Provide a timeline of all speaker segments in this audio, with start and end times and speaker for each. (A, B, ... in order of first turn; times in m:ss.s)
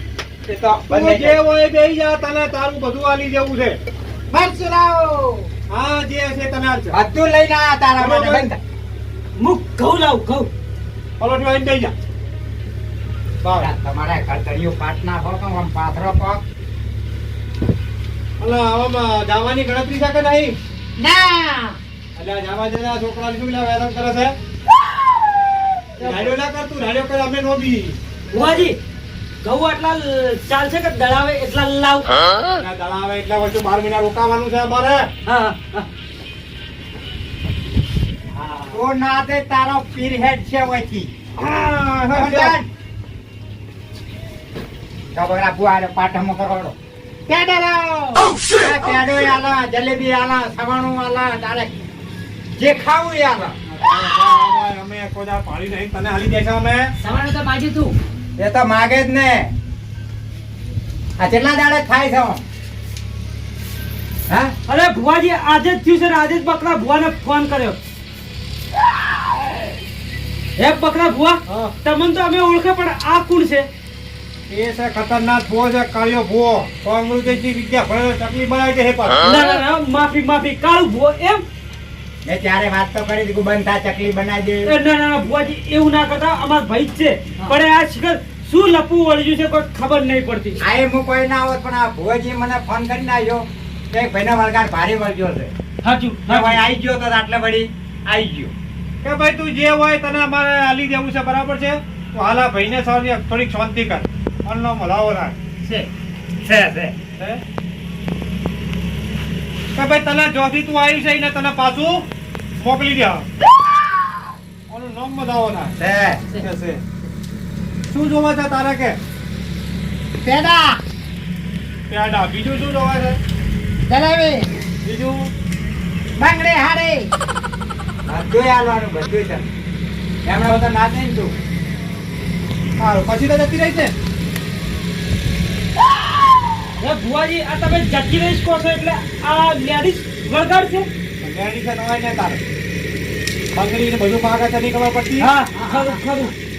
0:00.5-0:01.4 A
0:00.9-0:03.8 B
0:04.3-0:05.5 A
0:05.7-0:07.0 B
0:06.9-0:08.6 A
0:08.0-0:08.5 B
0:09.4-0:10.5 C
0:11.2-0:11.9 B
0:13.4-0:13.7 B
0:13.6-0:16.4 A
0:18.4-0:20.6 B
0:21.0-0:21.8 D
0:22.1-0:24.4 B
0:26.0-0:26.3 C
0:26.0-0:28.0 B
0:28.3-0:28.8 C
0:29.4-0:32.1 C
0:32.6-0:35.1 B
0:35.2-0:35.9 C
0:38.7-0:41.1 A
0:41.4-0:42.6 B
0:42.1-0:42.7 A
0:45.1-0:46.7 A
0:47.3-0:51.7 A
0:52.6-0:53.5 A
0:53.7-0:56.9 B
0:57.0-0:58.0 D
0:58.4-0:59.5 A
1:01.2-1:02.4 A
1:04.3-1:04.5 A
1:04.7-1:07.8 C
1:10.6-1:13.7 C
1:11.5-1:11.7 B
1:14.5-1:19.2 B
1:19.2-1:21.4 C
1:22.2-1:24.7 A
1:24.6-1:30.6 C
1:30.6-1:35.5 A
1:35.8-1:36.6 C
1:36.3-1:38.5 A
1:39.0-1:45.4 B
1:45.6-1:45.9 A
1:46.4-1:47.0 A
1:47.2-1:47.4 B
1:49.7-1:52.1 B
1:52.6-1:53.3 B
1:54.7-1:55.8 B
1:55.8-1:56.3 A
1:56.4-1:56.8 B
1:57.9-1:59.0 B
2:00.2-2:00.8 A
2:01.9-2:03.2 B
2:03.9-2:04.4 A
2:04.8-2:05.3 B
2:06.2-2:07.1 A
2:08.1-2:09.4 A
2:10.2-2:11.3 A
2:12.8-2:13.9 B
2:16.8-2:20.9 C
2:21.2-2:22.4 B
2:23.5-2:25.3 B
2:25.2-2:26.3 C
2:25.5-2:26.3 D